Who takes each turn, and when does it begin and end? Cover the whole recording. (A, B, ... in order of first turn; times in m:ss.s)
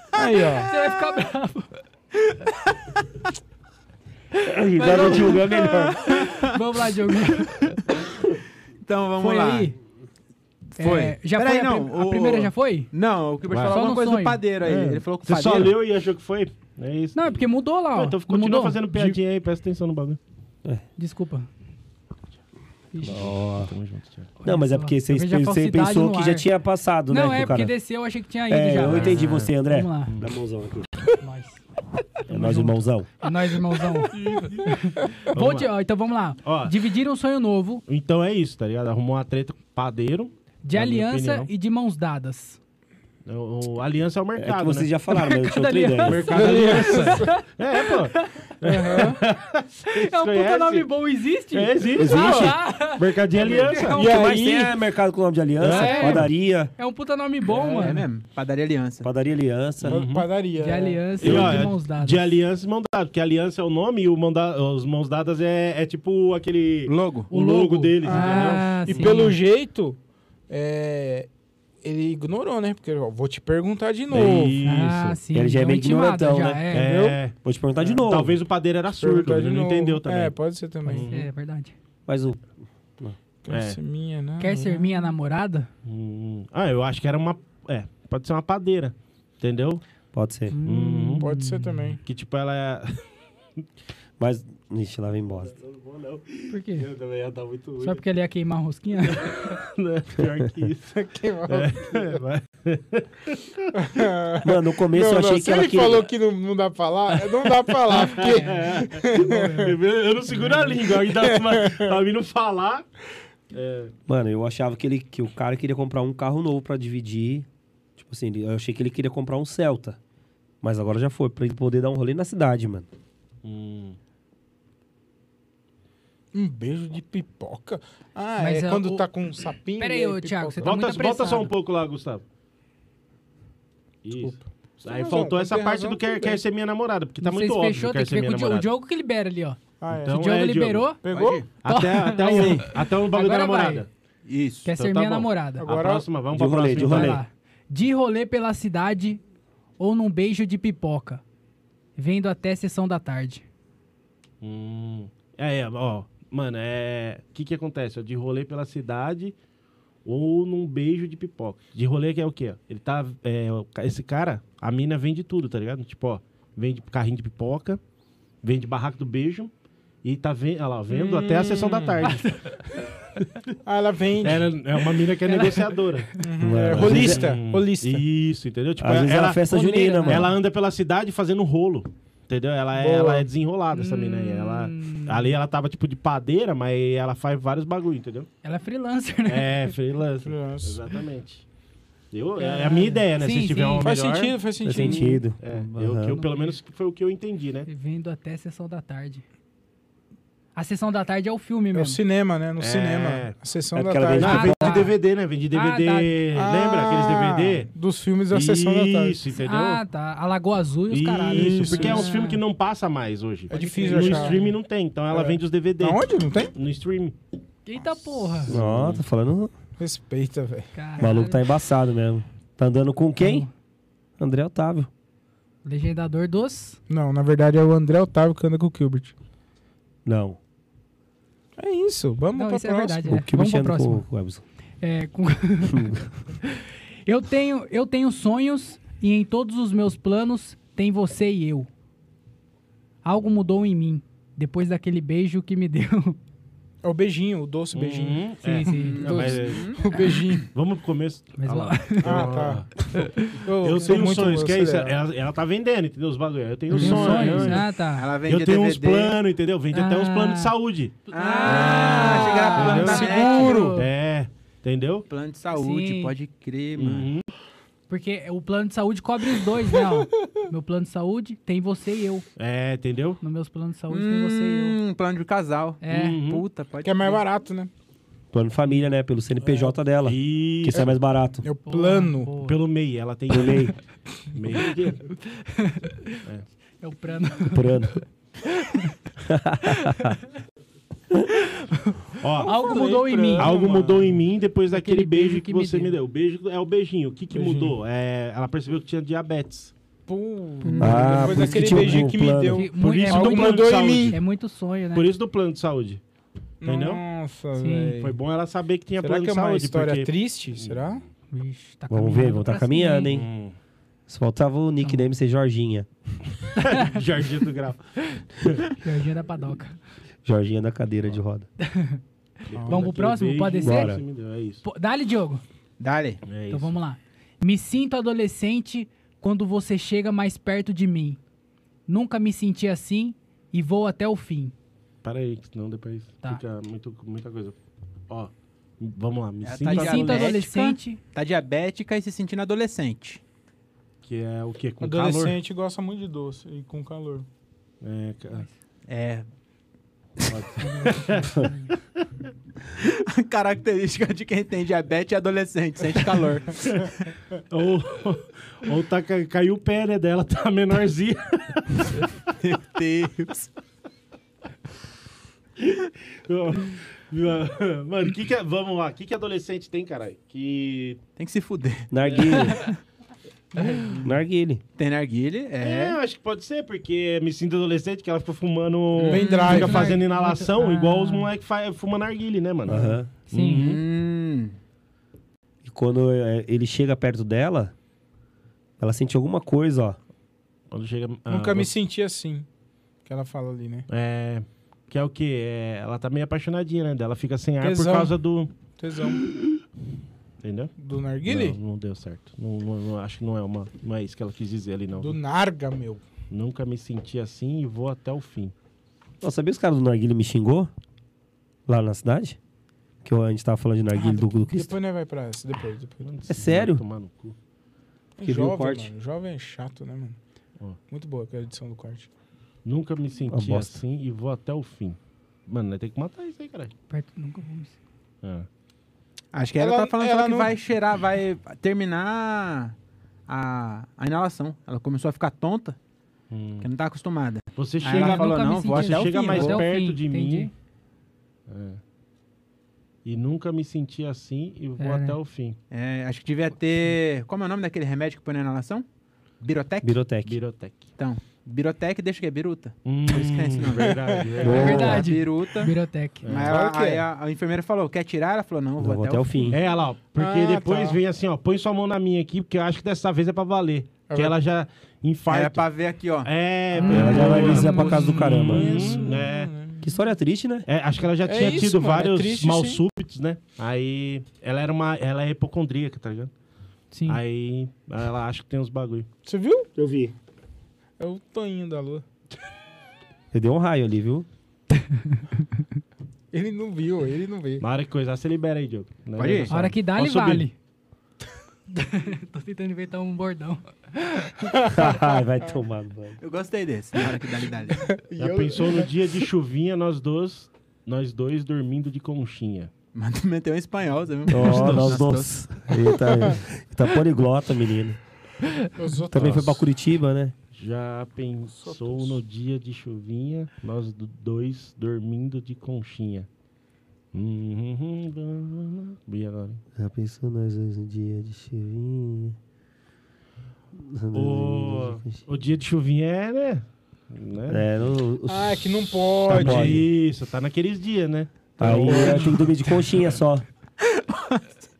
0:00.1-0:00.7 A
0:00.7-0:01.7 B
0:04.4-0:06.0 C
0:04.8-0:05.5 B
0:05.5-0:06.5 D
0:06.0-0:07.7 B
0:07.4-0:07.8 D
0:08.8-0:09.7 D
0:09.2-0:09.7 B
0:10.8-0:12.9 B
0:10.8-0:15.7 D
0:13.5-0:13.9 E
0:13.7-0:14.4 B
0:14.6-0:20.2 E
0:17.1-0:19.2 B
0:21.0-0:21.5 B
0:22.9-0:23.3 B
0:23.0-0:23.7 C
0:23.2-0:24.3 E
0:24.4-0:26.5 B
0:24.4-0:27.7 C
0:27.1-0:30.1 B
0:28.5-0:30.9 C
0:28.8-0:29.5 E
0:31.2-0:31.6 B
0:32.3-0:33.1 C
0:32.3-0:37.8 B
0:34.1-0:34.7 E
0:35.3-0:35.7 E
0:36.4-0:36.8 E
0:37.9-0:41.5 E
0:40.6-0:42.6 B
0:43.2-0:44.9 E
0:44.4-0:46.4 C
0:45.1-0:48.4 B
0:46.0-0:50.9 E
0:46.3-0:47.4 A
0:48.6-0:49.2 A
0:49.8-0:54.4 B
0:51.5-0:54.0 E
0:52.0-0:52.6 C
0:53.9-0:54.8 A
0:53.9-0:56.7 C
0:55.6-0:56.3 E
0:55.6-0:58.0 B
0:57.5-0:57.9 E
0:57.8-0:59.1 D
0:59.0-1:00.0 C
0:59.8-1:00.3 E
0:59.8-1:01.2 A
1:00.6-1:02.2 B
1:01.2-1:09.2 E
1:01.2-1:01.6 C
1:06.9-1:07.3 D
1:07.3-1:09.4 B
1:08.0-1:10.0 A
1:10.5-1:11.3 A
1:11.8-1:14.6 A
1:14.1-1:15.2 E
1:14.6-1:16.9 B
1:15.3-1:16.6 C
1:16.4-1:21.3 E
1:16.8-1:17.2 A
1:17.4-1:18.4 C
1:19.0-1:21.1 A
1:21.1-1:21.7 B
1:22.1-1:23.1 C
1:23.4-1:25.1 A
1:23.5-1:23.8 E
1:24.4-1:25.7 B
1:25.8-1:29.8 E
1:30.1-1:30.5 C
1:30.5-1:32.0 B
1:30.6-1:31.3 E
1:31.2-1:32.0 A
1:32.0-1:33.0 E
1:34.2-1:35.6 C
1:35.3-1:38.0 E
1:36.5-1:36.9 B
1:37.8-1:39.5 B
1:39.1-1:41.0 E
1:40.9-1:42.2 A
1:41.5-1:43.7 E
1:43.7-1:49.8 A
1:44.4-1:46.1 C
1:47.7-1:52.8 E
1:48.2-1:48.6 B
1:49.2-1:49.6 B
1:50.5-1:52.0 A
1:53.5-1:53.9 E
1:54.1-2:00.0 C
2:00.6-2:02.9 C
2:03.4-2:04.0 E
2:06.3-2:10.8 A
2:08.4-2:09.0 B
2:09.8-2:11.5 B
2:10.6-2:12.2 E
2:14.0-2:18.7 E
2:14.2-2:16.4 A
2:17.2-2:21.0 B
2:19.8-2:20.2 A
2:19.9-2:20.9 E
2:21.0-2:21.4 A
2:21.1-2:21.5 D
2:21.6-2:23.9 E
2:21.6-2:23.8 B
2:22.3-2:22.6 D
2:24.2-2:24.7 D
2:24.6-2:25.6 B
2:24.7-2:27.2 E
2:25.6-2:26.1 A
2:26.3-2:27.2 C
2:26.8-2:29.2 B
2:29.8-2:31.2 B
2:32.0-2:33.4 B
2:34.4-2:39.4 E
2:40.0-2:47.8 E
2:48.4-2:49.5 E
2:50.0-2:52.2 E
2:51.1-2:52.0 A
2:52.0-2:52.9 B
2:53.6-2:54.5 A
2:54.2-2:56.1 E
2:55.2-2:56.1 B
2:56.2-2:58.0 A
2:56.4-2:57.3 C
2:56.7-2:59.5 E
2:58.8-3:00.3 C
2:59.5-3:00.4 B
3:00.0-3:08.3 E
3:02.7-3:03.3 A
3:03.7-3:05.3 B
3:08.4-3:09.7 B
3:09.2-3:11.4 E
3:10.2-3:10.8 A
3:12.1-3:17.7 E
3:12.4-3:13.9 B
3:13.8-3:15.3 A
3:14.6-3:16.2 C
3:16.1-3:16.5 B
3:17.6-3:19.2 B
3:20.5-3:22.0 B
3:21.7-3:24.8 A
3:22.6-3:23.4 E
3:23.7-3:24.8 C
3:24.2-3:27.7 E
3:24.2-3:25.0 B
3:25.5-3:26.1 B
3:26.3-3:29.2 A
3:28.3-3:29.8 E
3:29.4-3:32.4 B
3:30.9-3:37.2 E
3:31.3-3:32.1 A
3:33.5-3:34.4 A
3:33.5-3:34.5 B
3:35.1-3:36.5 A
3:37.6-3:38.6 B
3:38.4-3:39.0 E
3:38.5-3:39.5 C
3:39.8-3:40.7 A
3:40.7-3:41.5 B
3:41.0-3:43.5 C
3:43.2-3:43.5 B
3:44.2-3:44.9 C
3:45.6-3:46.8 B
3:46.9-3:49.1 A
3:50.0-3:50.4 C
3:51.6-3:53.1 A
3:52.4-3:54.0 B
3:53.1-3:54.4 C
3:54.8-4:01.7 B
3:55.7-3:56.0 C
4:03.0-4:06.2 B
4:06.8-4:10.5 A
4:07.7-4:09.7 E
4:08.4-4:09.3 B
4:08.9-4:10.1 D
4:10.5-4:12.7 E
4:11.4-4:12.3 B
4:12.0-4:15.0 A
4:13.0-4:13.3 B
4:13.6-4:17.7 E
4:16.7-4:18.1 B
4:16.8-4:17.6 A
4:17.9-4:19.2 D
4:18.2-4:25.0 E
4:19.7-4:20.5 B
4:21.0-4:23.9 B
4:21.1-4:23.6 D
4:22.6-4:23.9 A
4:25.1-4:27.1 D
4:25.5-4:26.1 B
4:26.8-4:27.3 E
4:27.9-4:32.2 B
4:32.4-4:33.2 E
4:33.2-4:34.8 B
4:33.9-4:37.2 D
4:35.8-4:36.2 B
4:35.9-4:36.4 E
4:36.8-4:37.7 A
4:38.3-4:41.4 C
4:40.0-4:41.0 E
4:41.4-4:42.3 A
4:41.6-4:42.6 B
4:42.4-4:43.7 E
4:43.3-4:43.7 C
4:44.3-4:45.0 E
4:45.2-4:46.2 B
4:46.8-4:48.9 B
4:47.5-4:48.0 C
4:49.3-4:50.1 C
4:49.6-4:50.2 B
4:51.3-4:53.5 B
4:52.2-4:59.7 E
4:52.4-4:54.2 A
4:54.7-4:56.0 B
4:57.3-4:57.8 A
5:00.1-5:04.2 A
5:00.6-5:01.7 D
5:00.8-5:02.7 C
5:02.5-5:05.1 B
5:02.7-5:04.2 E
5:04.9-5:06.0 E
5:06.6-5:08.2 A
5:06.6-5:07.0 E
5:07.6-5:07.9 B
5:08.0-5:10.9 E
5:09.0-5:11.0 A
5:11.3-5:13.1 B
5:11.9-5:13.3 C
5:13.1-5:13.5 E
5:14.1-5:15.9 C
5:14.8-5:15.1 B
5:16.6-5:17.0 B
5:16.6-5:17.8 E
5:18.8-5:19.8 B
5:20.2-5:21.4 C
5:21.6-5:22.0 B
5:22.5-5:24.6 E
5:22.5-5:22.8 A
5:22.7-5:24.0 B
5:23.6-5:24.0 C
5:24.6-5:25.4 B
5:25.8-5:26.2 D
5:26.2-5:26.8 E
5:26.5-5:31.2 B
5:31.9-5:34.5 B
5:35.0-5:37.5 E
5:38.1-5:40.4 E
5:39.4-5:43.2 D
5:39.7-5:41.0 B
5:44.0-5:45.4 E
5:44.8-5:47.2 A
5:47.8-5:48.4 E
5:48.9-5:49.2 D
5:50.2-5:51.5 E
5:50.6-5:51.7 B
5:52.8-5:57.1 D
5:57.5-6:02.1 E
6:02.4-6:03.5 D
6:05.6-6:11.0 E
6:11.2-6:12.6 D
6:11.9-6:12.6 C
6:12.4-6:12.7 B
6:14.0-6:14.6 C
6:14.8-6:16.0 D
6:15.6-6:23.8 E
6:19.0-6:20.0 A
6:19.1-6:21.3 B
6:22.6-6:23.1 C
6:23.3-6:23.6 B
6:23.5-6:24.6 D
6:25.6-6:27.7 C
6:28.8-6:30.0 C
6:30.7-6:31.7 E
6:31.3-6:32.4 A
6:33.0-6:33.9 A
6:33.9-6:38.5 E
6:37.6-6:39.2 A
6:40.4-6:40.7 E
6:40.8-6:41.6 A
6:41.2-6:45.2 E
6:45.0-6:46.0 A
6:46.3-6:48.5 E
6:49.2-6:50.7 C
6:51.7-6:52.4 C
6:53.0-6:54.7 C
6:53.9-6:56.1 A
6:56.0-6:57.4 E
6:56.3-6:56.8 C
6:58.2-7:00.2 A
6:58.2-6:58.9 C
7:00.9-7:02.1 A
7:02.6-7:06.7 E
7:03.3-7:03.8 C
7:06.9-7:07.7 B
7:08.2-7:08.5 E
7:09.3-7:12.7 D
7:09.6-7:10.5 A
7:13.3-7:15.8 D
7:16.3-7:16.7 E
7:16.6-7:19.6 D
7:17.6-7:20.5 E
7:17.8-7:20.5 B
7:21.5-7:21.8 E
7:23.0-7:25.6 E
7:24.8-7:25.2 B
7:25.7-7:28.8 D
7:29.4-7:30.0 D
7:29.8-7:30.4 C
7:30.2-7:30.9 E
7:31.0-7:34.0 D
7:32.8-7:35.0 E
7:33.8-7:34.7 A
7:34.4-7:35.1 C
7:34.5-7:36.2 B
7:34.6-7:35.7 D
7:36.2-7:36.6 E
7:36.2-7:39.6 D
7:36.4-7:37.0 A
7:38.8-7:39.6 C
7:39.5-7:45.6 E
7:40.1-7:41.0 A
7:44.1-7:44.4 A
7:45.3-7:46.3 D
7:46.2-7:49.5 E
7:46.8-7:48.1 B
7:46.9-7:49.1 C
7:46.9-7:49.8 A
7:47.4-7:48.2 D
7:49.8-7:50.7 C
7:50.6-7:56.3 E
7:51.2-7:52.8 A
7:56.9-7:57.2 B
7:57.1-7:59.1 E
7:59.2-7:59.7 A
7:59.8-8:00.1 C
8:01.0-8:02.0 A
8:03.3-8:04.3 C
8:06.3-8:07.6 A
8:07.6-8:10.5 E
8:09.2-8:09.5 D
8:09.5-8:10.5 B
8:11.7-8:14.5 B
8:14.5-8:15.2 A
8:14.7-8:16.2 C
8:16.2-8:17.9 D
8:17.8-8:18.9 A
8:18.2-8:22.7 E
8:22.9-8:25.5 D
8:24.3-8:28.0 C
8:24.4-8:25.0 E
8:26.0-8:26.4 A
8:28.7-8:29.5 A
8:29.1-8:30.3 C
8:29.2-8:29.5 E
8:30.5-8:36.3 E
8:31.5-8:32.2 A
8:37.1-8:39.6 E
8:39.7-8:42.4 C
8:43.7-8:45.2 C
8:44.1-8:47.8 E
8:47.5-8:48.7 C
8:48.2-8:49.8 A
8:49.3-8:49.8 C
8:49.3-8:52.4 E
8:51.6-8:53.4 C
8:51.7-8:52.5 A
8:53.8-8:54.6 D